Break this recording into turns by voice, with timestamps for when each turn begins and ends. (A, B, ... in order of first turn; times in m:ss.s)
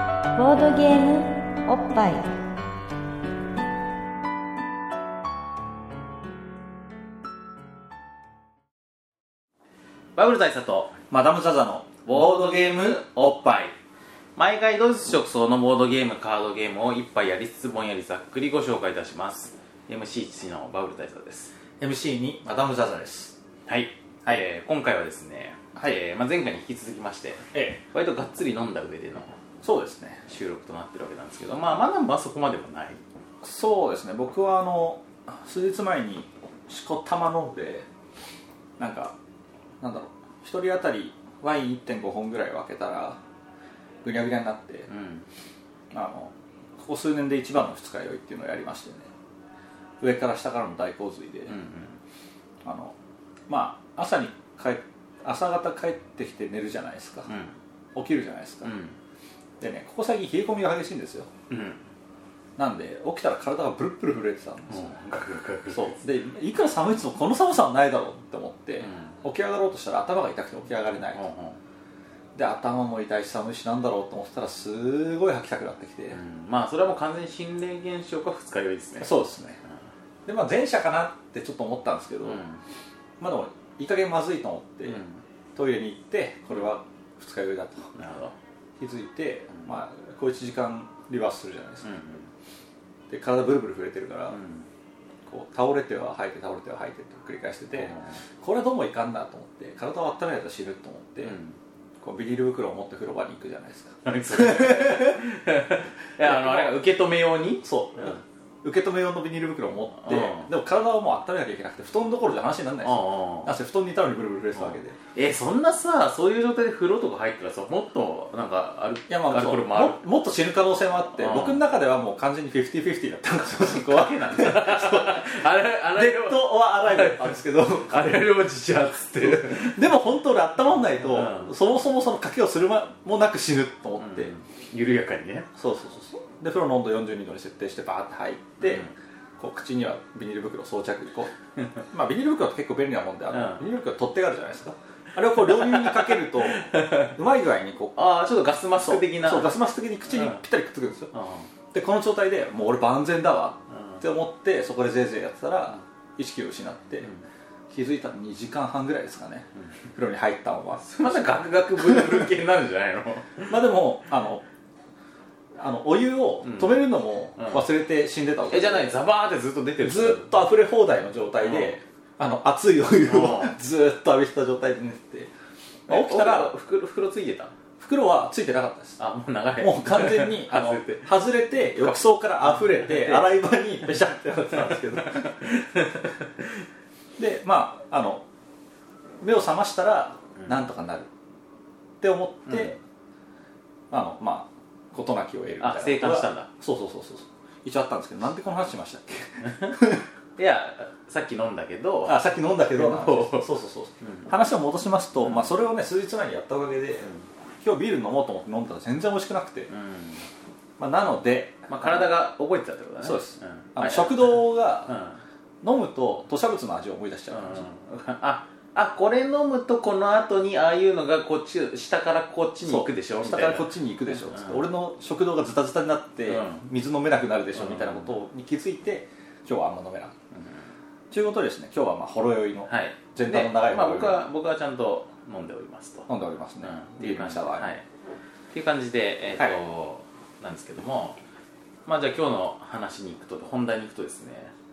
0:00.3-0:02.3 A
0:10.2-0:11.0 B
0:11.1-0:13.6 C
0:12.0-0:13.7 B
0:14.4-0:21.5 B
0:21.8-0:23.4 C
0:23.7-0:29.3 B
0:27.5-0:27.8 C
0:29.6-0:30.3 C
0:30.3-0:33.0 B
0:33.4-0:37.8 C
0:38.8-0:39.2 C
0:39.8-0:43.2 C
0:44.0-0:44.9 C
0:44.9-0:45.2 B
0:45.9-0:49.1 C
0:50.0-0:51.5 C
0:51.5-0:52.0 B
0:52.6-0:52.9 C
0:53.5-0:57.3 C
0:57.3-0:57.5 B
0:57.9-0:58.7 C
0:58.6-0:58.9 B
0:59.6-1:01.3 C
1:01.5-1:01.8 B
1:02.6-1:04.9 C
1:04.7-1:06.0 B
1:05.7-1:11.2 C
1:08.8-1:09.1 B
1:11.1-1:11.6 B
1:12.3-1:16.2 C
1:16.1-1:19.1 B
1:19.0-1:19.6 C
1:20.2-1:22.4 C
1:22.2-1:22.6 B
1:23.2-1:25.0 C
1:24.9-1:25.2 B
1:25.5-1:27.9 C
1:27.9-1:28.3 B
1:28.8-1:31.9 C
1:31.8-1:32.3 B
1:33.1-1:34.4 C
1:34.3-1:34.7 B
1:35.3-1:41.4 C
1:37.8-1:38.2 B
1:41.2-1:41.6 B
1:42.0-1:45.2 C
1:44.0-1:48.2 B
1:46.2-1:46.7 C
1:47.6-1:55.0 C
1:50.0-1:50.5 B
1:52.8-1:53.5 B
1:54.6-2:00.0 B
1:59.1-2:05.3 C
2:01.2-2:01.6 B
2:03.6-2:09.8 B
2:05.9-2:08.1 C
2:09.2-2:14.3 C
2:11.1-2:11.5 B
2:14.0-2:15.5 B
2:15.6-2:21.3 C
2:18.6-2:18.9 B
2:21.9-2:28.0 C
2:23.3-2:23.6 B
2:25.4-2:27.1 B
2:28.0-2:29.6 B
2:28.8-2:31.1 C
2:30.1-2:30.4 B
2:31.1-2:31.5 B
2:31.7-2:37.1 C
2:33.8-2:34.0 B
2:37.7-2:41.2 C
2:40.8-2:43.6 B
2:41.8-2:42.3 C
2:43.5-2:44.4 C
2:45.6-2:49.0 C
2:46.4-2:46.7 B
2:47.4-2:47.6 B
2:48.5-2:50.3 B
2:49.8-2:55.3 C
2:51.4-2:51.7 B
2:53.0-2:53.5 B
2:55.9-2:56.5 C
2:55.9-2:57.5 B
2:57.8-2:59.0 C
2:59.0-3:01.1 B
2:59.6-3:05.2 C
3:01.8-3:03.4 B
3:04.7-3:06.5 B
3:07.2-3:08.2 C
3:09.2-3:11.1 C
3:12.0-3:12.8 C
3:12.5-3:12.7 B
3:13.9-3:20.0 C
3:15.6-3:16.5 B
3:19.4-3:19.7 B
3:20.4-3:23.5 B
3:22.0-3:27.1 C
3:24.0-3:24.3 B
3:25.2-3:25.5 B
3:27.6-3:29.7 C
3:29.7-3:30.2 B
3:30.8-3:32.0 C
3:31.7-3:35.2 B
3:33.0-3:34.9 C
3:35.6-3:37.6 C
3:37.3-3:44.6 B
3:42.6-3:50.1 C
3:46.2-3:46.6 B
3:47.5-3:48.1 B
3:51.1-3:54.2 C
3:52.7-3:56.1 B
3:56.1-3:57.7 C
3:56.6-3:57.8 B
3:58.5-4:01.2 B
4:01.8-4:04.5 B